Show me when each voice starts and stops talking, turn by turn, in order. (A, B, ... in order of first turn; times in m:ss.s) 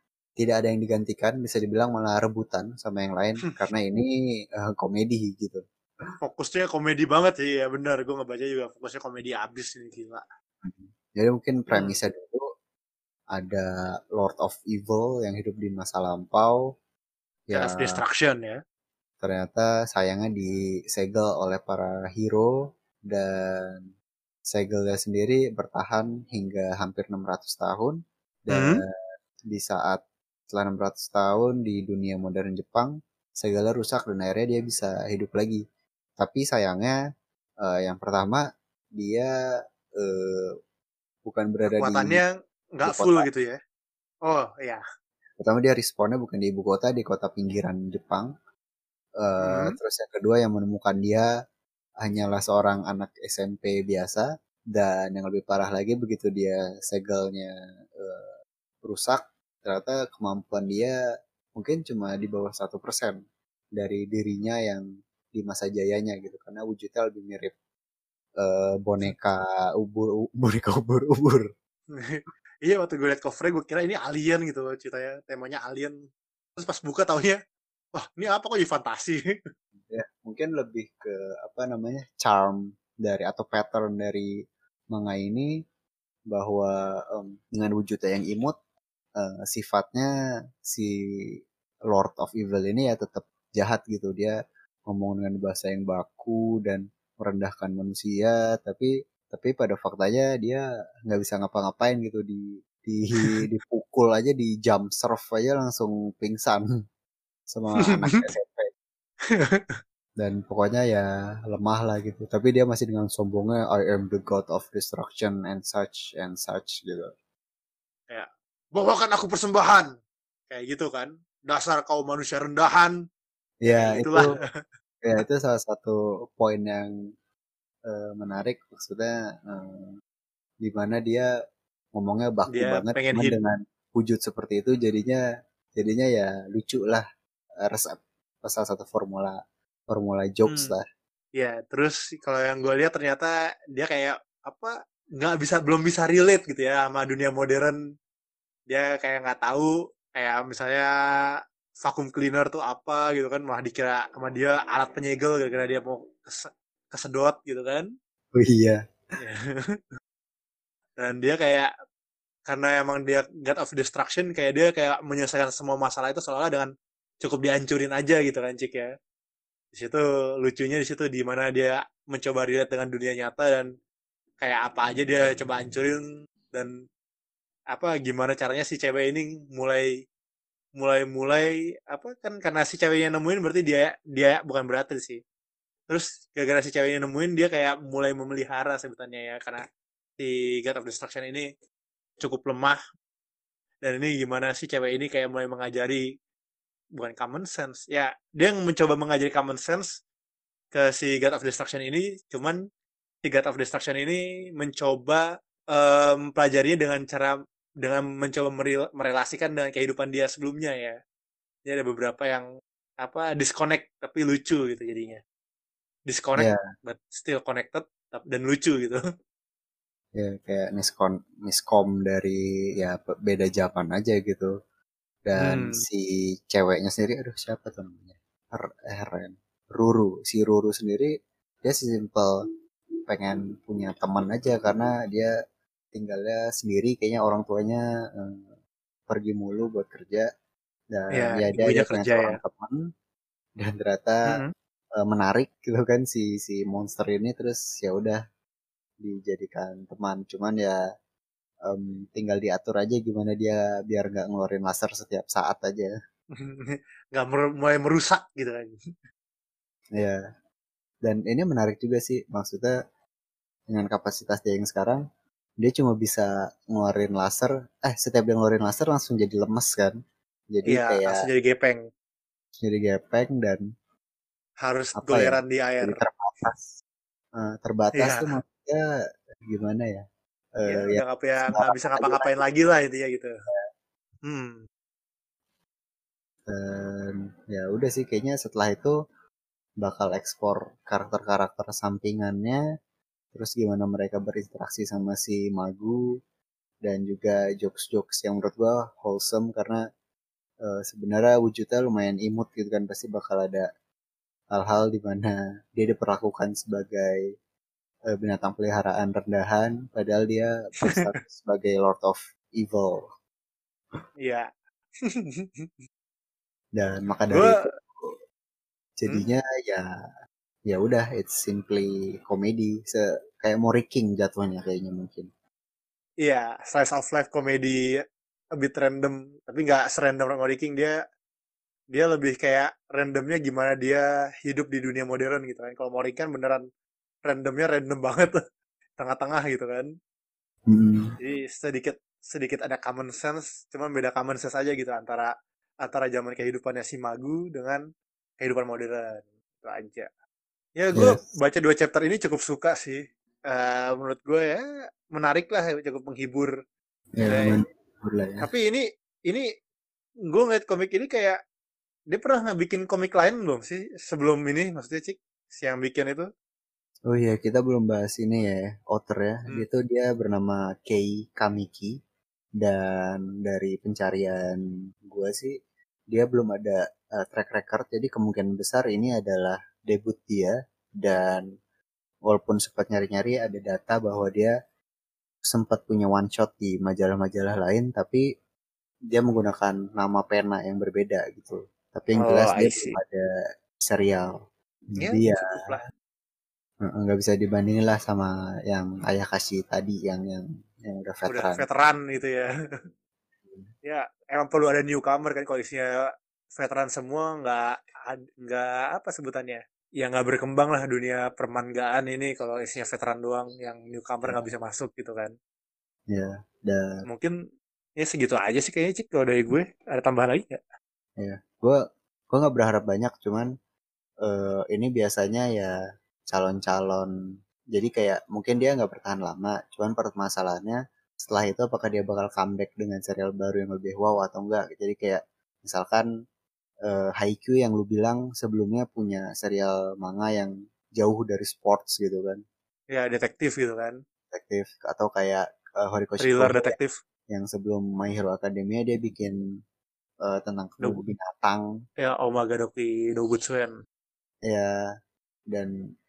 0:00.4-0:05.6 A
0:06.2-0:10.2 B
0:10.6-0:12.5 A
0:11.7-0:12.0 B
0:13.3-0:16.6 A
0:17.5-0:18.0 A
0:17.5-0:18.6 B
0:19.2-0:22.5 A
0:23.1-0:23.9 A
0:24.5-0:28.9 A
0:28.5-0:28.8 B
0:29.5-0:35.6 A
0:36.2-0:36.9 A
0:37.6-0:38.4 A
0:39.0-0:39.3 A
0:40.0-0:40.6 A
0:41.2-0:42.2 A
0:41.8-0:43.6 B
0:42.8-0:43.2 A
0:44.2-0:44.8 B
0:45.4-0:48.3 A
0:49.2-0:51.3 A
0:49.4-0:49.8 B
0:52.0-1:01.0 A
1:01.6-1:03.2 A
1:03.8-1:07.5 A
1:08.4-1:11.5 A
1:11.9-1:16.0 B
1:16.6-1:17.4 B
1:18.0-1:19.2 B
1:19.9-1:24.3 A
1:24.9-1:25.5 A
1:26.3-1:28.6 A
1:29.2-1:30.1 A
1:30.6-1:31.0 A
1:31.9-1:34.4 A
1:34.9-1:46.6 A
1:43.2-1:43.4 B
1:47.5-1:48.7 A
1:47.8-1:48.2 B
1:49.3-1:49.8 B
1:50.2-1:57.1 A
1:58.1-1:59.9 B
2:00.5-2:02.9 B
2:03.6-2:04.3 A
2:03.7-2:04.4 B
2:05.0-2:06.9 A
2:07.9-2:09.9 A
2:10.6-2:11.3 A
2:11.9-2:15.2 A
2:12.5-2:13.4 B
2:15.8-2:17.0 A
2:17.7-2:19.4 A
2:19.9-2:20.8 A
2:20.5-2:20.7 B
2:21.4-2:27.8 B
2:28.7-2:30.9 B
2:31.8-2:37.9 B
2:38.3-2:38.8 A
2:39.2-2:39.8 B
2:41.0-2:41.7 B
2:42.5-2:46.7 B
2:47.2-2:48.9 B
2:49.7-2:53.7 B
2:54.4-2:56.0 B
2:57.7-2:59.9 B
3:00.8-3:05.2 B
3:05.9-3:09.6 B
3:10.2-3:11.5 B
3:12.2-3:12.8 B
3:13.8-3:16.0 B
3:17.0-3:19.9 B
3:20.7-3:22.6 B
3:23.2-3:31.0 B
3:31.6-3:32.4 B
3:33.0-3:35.2 B
3:36.1-3:39.0 B
3:40.1-3:44.5 A
3:45.2-3:51.1 A
3:45.4-3:45.8 B
3:51.6-3:52.4 A
3:53.1-3:55.3 A
3:55.9-3:58.5 A
3:59.1-4:00.3 A
4:00.9-4:02.8 A
4:01.1-4:02.4 B
4:03.6-4:04.4 A
4:05.0-4:08.2 A
4:09.0-4:10.8 A
4:11.6-4:15.9 A
4:16.4-4:18.8 B
4:20.0-4:20.2 A
4:21.0-4:22.7 A
4:23.7-4:25.0 A
4:25.6-4:30.0 A
4:30.5-4:31.2 A
4:30.7-4:31.8 B
4:32.6-4:33.6 A
4:34.6-4:36.0 B
4:35.0-4:36.7 A
4:37.4-4:38.8 A
4:38.0-4:38.4 B
4:39.5-4:40.0 A
4:40.6-4:42.4 A
4:40.6-4:43.3 B
4:44.2-4:44.6 B
4:46.5-4:48.9 A
4:49.8-4:52.6 A
4:53.3-4:56.0 A
4:56.8-4:59.8 A
5:00.6-5:03.7 A
5:04.5-5:07.2 A
5:08.1-5:13.0 A
5:15.0-5:15.7 B
5:16.8-5:18.1 A
5:17.3-5:17.6 B
5:19.0-5:19.8 A
5:20.7-5:25.3 A
5:26.2-5:28.0 B
5:28.6-5:30.9 B
5:31.9-5:36.6 B
5:37.2-5:38.4 B
5:39.0-5:39.9 B
5:40.7-5:41.1 A
5:41.2-5:45.3 B
5:45.8-5:47.8 B
5:48.4-5:50.1 B
5:50.8-5:56.5 B
5:51.0-5:51.2 A
5:57.2-5:58.4 A
5:57.2-5:57.6 B
5:58.4-5:59.5 B
6:00.3-6:01.4 B
6:02.1-6:06.3 B
6:07.1-6:12.0 A
6:12.6-6:15.6 A
6:16.1-6:21.4 A
6:22.3-6:24.5 A
6:25.4-6:28.2 A
6:29.1-6:33.2 A
6:32.2-6:32.9 B
6:33.8-6:34.3 A
6:34.9-6:35.4 A
6:35.0-6:35.8 B
6:36.8-6:41.6 A
6:41.3-6:42.5 B
6:43.8-6:45.9 B
6:46.6-6:55.3 B
6:56.1-6:57.0 A
6:57.0-6:57.3 B
6:58.0-7:00.6 B
7:01.2-7:03.5 A
7:04.2-7:05.7 A
7:06.3-7:07.1 A
7:07.7-7:16.1 A
7:16.9-7:22.4 A
7:22.9-7:24.0 B
7:24.3-7:26.8 A
7:26.2-7:26.9 B
7:27.3-7:29.4 A
7:30.2-7:31.6 A
7:32.0-7:33.8 B
7:34.5-7:34.8 A